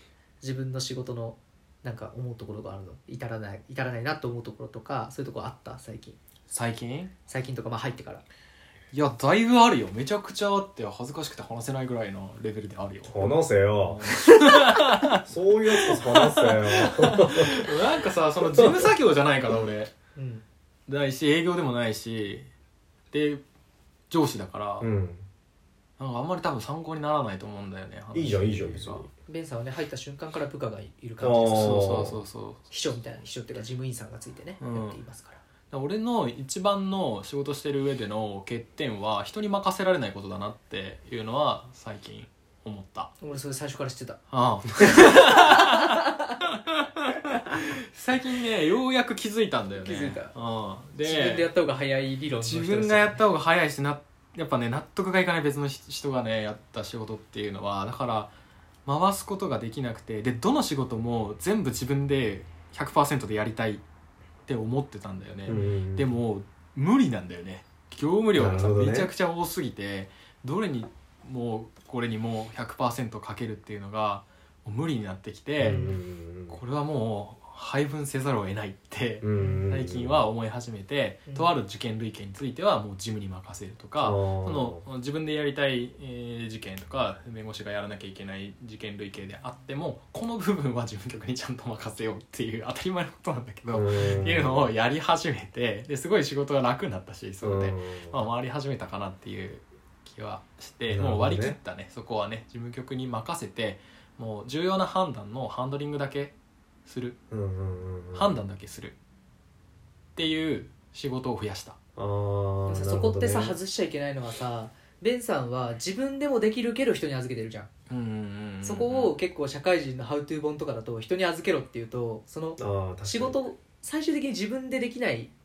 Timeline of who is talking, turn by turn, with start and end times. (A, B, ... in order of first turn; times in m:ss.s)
0:00.4-0:06.2 A
0:06.5-0:07.1 B
0:07.3-0:08.2 A
0:08.9-0:19.9 B
0:13.0-0:14.1 C
0:15.2-0:17.7 C
0:18.4-0:18.9 C
0:20.2-0:20.4 A
0:20.9-0:22.5 B
0:23.1-0:23.4 B
0:24.1-0:24.9 B
0:24.8-0:25.3 C
0:26.0-0:29.1 B
0:28.1-0:29.1 C
0:29.3-0:32.1 A
0:31.2-0:32.2 C
0:31.5-0:32.6 B
0:32.7-0:35.4 A
0:34.6-0:35.0 B
0:35.7-0:43.1 B
0:43.2-0:44.2 A
0:44.3-0:51.5 B
0:44.9-0:46.1 A
0:49.7-0:50.3 A
0:51.0-0:53.2 A
0:52.4-0:58.3 B
0:58.9-1:03.8 B
1:04.5-1:15.8 B
1:05.5-1:06.1 C
1:08.4-1:09.1 C
1:15.6-1:16.6 C
1:15.6-1:16.0 A
1:16.5-1:46.4 B
1:19.2-1:20.2 C
1:19.4-1:19.6 A
1:24.0-1:24.8 C
1:33.7-1:34.7 C
1:37.4-1:38.2 C
1:40.9-1:41.6 C
1:46.9-1:47.2 B
1:47.3-1:48.4 C
1:48.1-1:49.0 B
1:50.2-1:51.8 B
1:52.0-1:53.6 C
1:52.7-1:57.7 A
1:57.9-1:59.2 B
1:58.6-2:05.3 A
2:02.6-2:03.4 C